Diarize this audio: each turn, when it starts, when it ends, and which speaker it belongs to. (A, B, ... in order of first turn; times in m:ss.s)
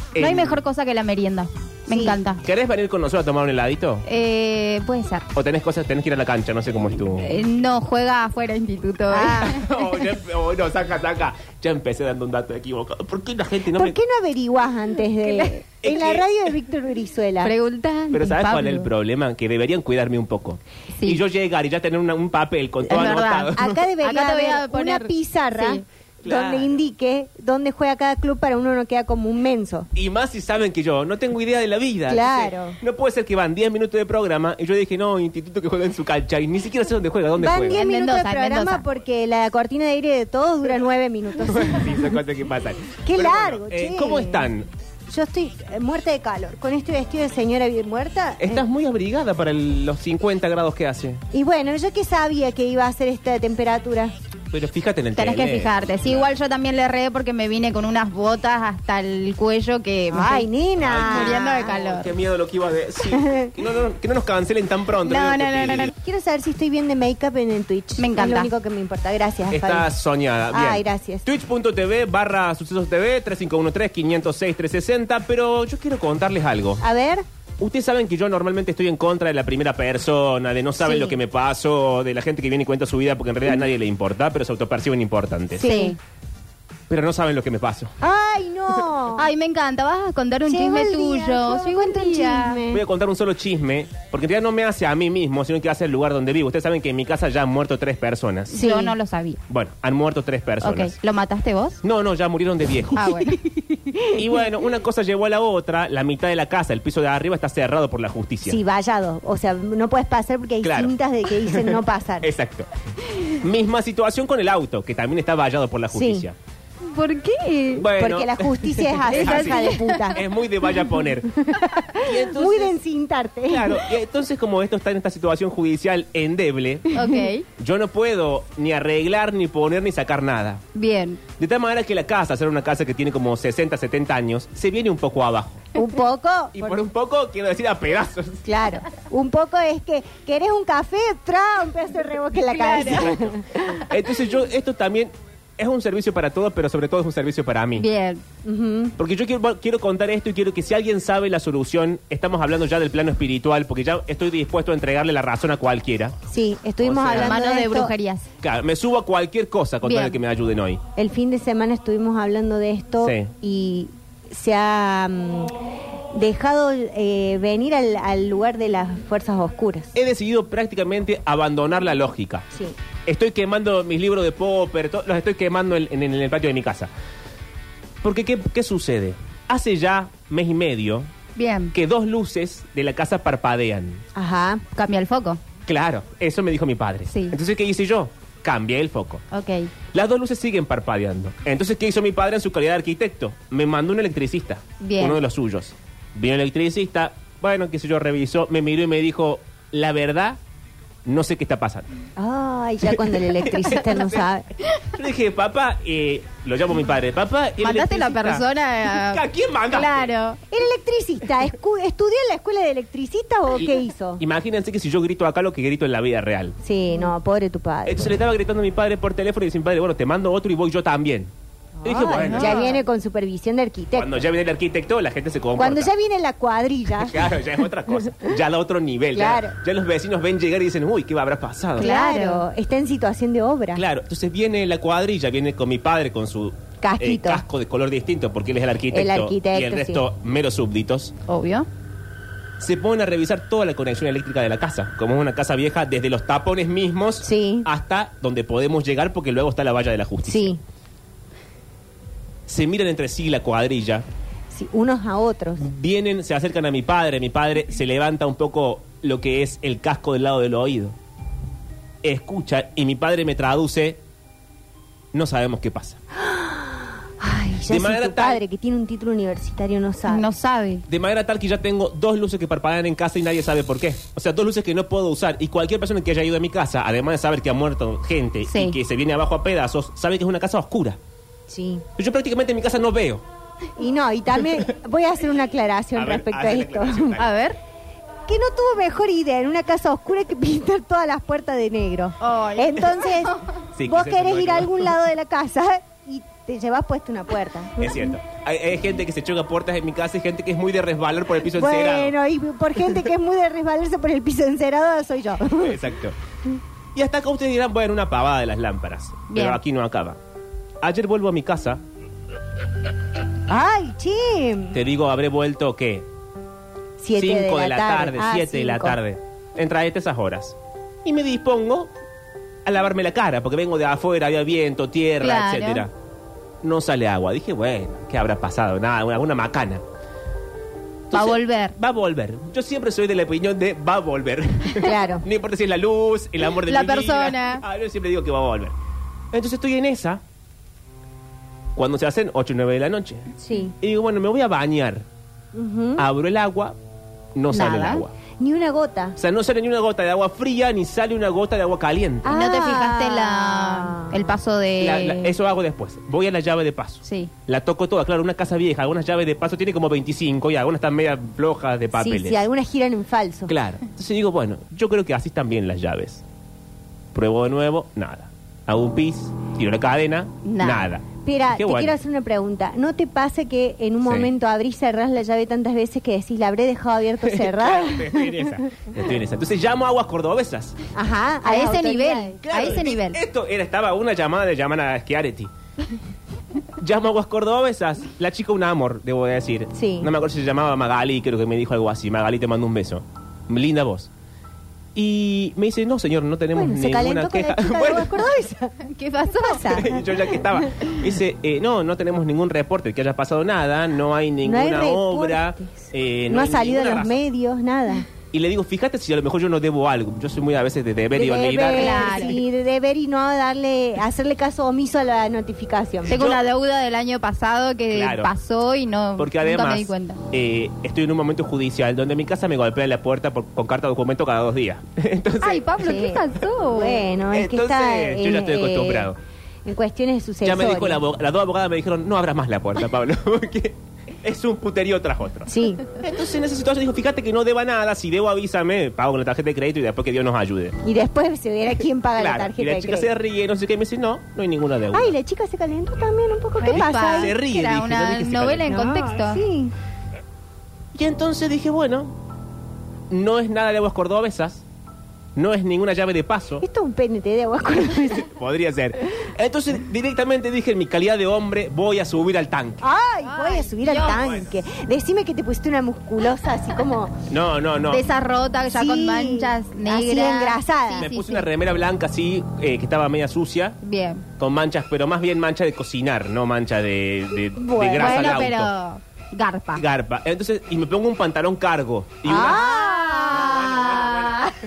0:00.1-0:00.6 A
0:00.2-0:02.4 B
0:01.9-0:02.2 C
0:02.4-0:04.0 A
0:04.1-0:05.2 B
0:05.3-0:07.3 A
0:07.2-0:09.6 B
0:09.1-0:09.6 C
0:09.5-0:14.0 A
0:13.8-0:17.5 C
0:15.2-0:15.5 B
0:15.8-0:16.2 A
0:17.4-0:18.9 B
0:18.1-0:23.8 A
0:22.9-0:25.8 B
0:22.9-0:29.9 C
0:26.2-0:26.8 A
0:29.9-0:37.8 A
0:32.1-0:32.8 C
0:37.4-0:42.1 C
0:37.7-0:38.8 B
0:41.5-0:44.7 A
0:43.0-0:44.5 C
0:45.1-0:48.6 C
0:48.4-0:51.2 A
0:51.3-0:54.1 C
0:54.5-0:56.3 A
0:55.1-1:00.5 B
1:00.1-1:01.7 C
1:00.8-1:05.9 A
1:01.0-1:02.1 B
1:03.1-1:03.5 C
1:05.0-1:05.9 B
1:06.0-1:09.8 C
1:08.0-1:08.5 B
1:09.5-1:16.8 A
1:10.5-1:11.2 C
1:16.8-1:17.2 C
1:17.6-1:25.7 A
1:20.8-1:21.1 C
1:25.6-1:26.0 C
1:25.6-1:26.0 B
1:26.9-1:27.9 A
1:28.0-1:29.3 C
1:29.2-1:32.6 B
1:30.5-1:32.8 C
1:32.7-1:38.6 A
1:38.5-1:39.4 B
1:38.5-1:38.9 C
1:39.5-1:40.9 A
1:40.6-1:41.8 B
1:41.8-1:43.0 A
1:43.0-1:43.3 B
1:43.7-1:44.2 C
1:44.1-1:48.6 A
1:48.4-1:52.3 C
1:50.6-1:52.7 A
1:53.4-1:56.4 A
1:55.9-1:56.2 C
1:56.9-1:57.8 B
1:57.8-2:01.4 A
1:57.9-2:00.2 C
1:59.1-2:00.1 B
2:01.4-2:03.8 C
2:02.0-2:02.8 A
2:03.5-2:06.9 A
2:06.9-2:07.4 B
2:07.0-2:07.2 C
2:07.6-2:10.6 A
2:10.7-2:11.2 B
2:11.3-2:15.6 A
2:15.8-2:16.8 C
2:16.6-2:18.4 A
2:18.4-2:23.8 C
2:22.5-2:23.2 B
2:23.9-2:27.9 A
2:27.8-2:28.2 B
2:28.4-2:28.9 C
2:29.0-2:36.2 A
2:36.3-2:37.9 C
2:36.8-2:37.4 A
2:37.1-2:38.2 B
2:38.4-2:40.8 A
2:39.8-2:40.2 B
2:41.0-2:45.5 C
2:43.0-2:43.3 A
2:46.1-2:49.9 C
2:49.9-2:52.4 A
2:53.0-2:56.9 A
2:58.0-3:01.1 A
3:01.4-3:01.7 B
3:01.7-3:04.0 A
3:04.1-3:04.6 C
3:04.7-3:05.4 B
3:05.6-3:09.2 A
3:07.1-3:07.4 B
3:09.3-3:09.7 B
3:09.9-3:20.4 A
3:14.8-3:15.2 B
3:21.0-3:21.9 A
3:22.2-3:24.5 C
3:22.9-3:24.2 A
3:24.9-3:30.1 A
3:27.6-3:30.4 B
3:30.5-3:34.2 C
3:34.2-3:36.6 A
3:36.6-3:38.1 C
3:37.8-3:41.3 A
3:41.8-3:44.1 C
3:41.8-3:42.6 A
3:42.2-3:42.8 B
3:43.9-3:45.9 A
3:45.6-3:47.2 C
3:47.0-3:51.9 A
3:49.1-3:49.5 C
3:51.8-3:53.8 C
3:51.8-3:52.4 B
3:53.7-4:01.1 A
3:56.8-3:57.4 C
3:58.9-4:00.0 C
4:01.3-4:01.7 B
4:02.6-4:10.6 A
4:07.2-4:07.7 C
4:10.2-4:10.6 C
4:12.5-4:14.0 A
4:14.5-4:15.6 C
4:15.6-4:20.9 A
4:22.0-4:24.0 A
4:25.1-4:26.0 A
4:26.2-4:30.2 C
4:27.7-4:28.4 A
4:30.1-4:30.8 B
4:30.9-4:41.0 A
4:38.5-4:38.8 B
4:41.5-4:41.8 C
4:42.0-4:43.2 A
4:43.8-4:47.2 C
4:45.9-4:47.3 A
4:47.2-4:47.6 B
4:48.3-4:57.9 C
4:52.2-4:53.1 B
4:53.7-4:54.9 A
4:57.8-5:02.1 A
5:01.6-5:05.7 C
5:05.6-5:06.1 A
5:06.9-5:10.2 A
5:09.3-5:09.6 B
5:10.8-5:11.8 A
5:13.5-5:14.8 C
5:14.7-5:16.0 A
5:17.0-5:19.0 C
5:17.2-5:21.9 A
5:22.6-5:25.9 A
5:25.2-5:25.8 B
5:26.6-5:29.8 A
5:31.1-5:38.7 A
5:31.1-5:31.7 B
5:34.8-5:35.2 C
5:36.6-5:37.6 B
5:39.3-5:40.2 A
5:41.8-5:43.3 A
5:43.4-5:43.7 C
5:43.8-5:45.0 A
5:45.5-5:46.0 C
5:46.0-5:46.7 A
5:47.3-5:48.1 A
5:47.5-5:48.0 B
5:48.4-5:49.2 C
5:49.2-5:52.3 A
5:52.2-5:54.1 C
5:52.3-5:55.3 B
5:54.8-6:02.4 A
5:57.0-5:57.3 B
6:02.0-6:03.5 C
6:03.5-6:06.2 A
6:07.1-6:11.9 A
6:10.5-6:10.9 B
6:11.2-6:18.4 C
6:14.0-6:14.3 A
6:17.2-6:20.7 A
6:20.9-6:22.4 C
6:21.4-6:23.2 B
6:22.4-6:25.5 A
6:26.8-6:34.1 A
6:29.7-6:30.1 C
6:34.9-6:38.2 A
6:36.5-6:38.8 C
6:38.8-6:39.8 B
6:39.4-6:40.0 C
6:39.7-6:47.2 A
6:40.6-6:40.9 C
6:44.4-6:48.1 C
6:48.3-6:52.3 A
6:51.1-6:56.1 C
6:51.5-6:52.4 B
6:56.0-6:56.4 A
6:56.1-7:00.2 B
6:57.9-6:58.3 A
6:59.2-7:05.7 A
7:05.4-7:07.0 B
7:05.8-7:09.1 C
7:07.3-7:09.2 A
7:09.6-7:11.0 C
7:10.4-7:20.8 A
7:15.5-7:15.8 C
7:20.8-7:23.1 C
7:22.2-7:25.1 A
7:24.9-7:27.3 C
7:26.6-7:29.4 B
7:26.7-7:28.8 A
7:28.7-7:29.7 C
7:30.9-7:32.1 A
7:33.1-7:34.6 A
7:35.4-7:36.6 A
7:36.6-7:38.3 C
7:38.2-7:42.8 A
7:42.8-7:47.1 C
7:43.2-7:44.2 B
7:43.9-7:44.5 A
7:47.3-7:48.0 A
7:47.9-7:51.4 B
7:48.7-7:51.1 C
7:51.0-7:53.8 A
7:53.8-7:54.2 B
7:54.4-7:58.7 A
7:57.6-7:58.5 C
7:58.0-7:59.8 B
7:59.8-8:02.7 A
8:02.2-8:03.9 C
8:02.3-8:04.5 B
8:03.3-8:04.4 A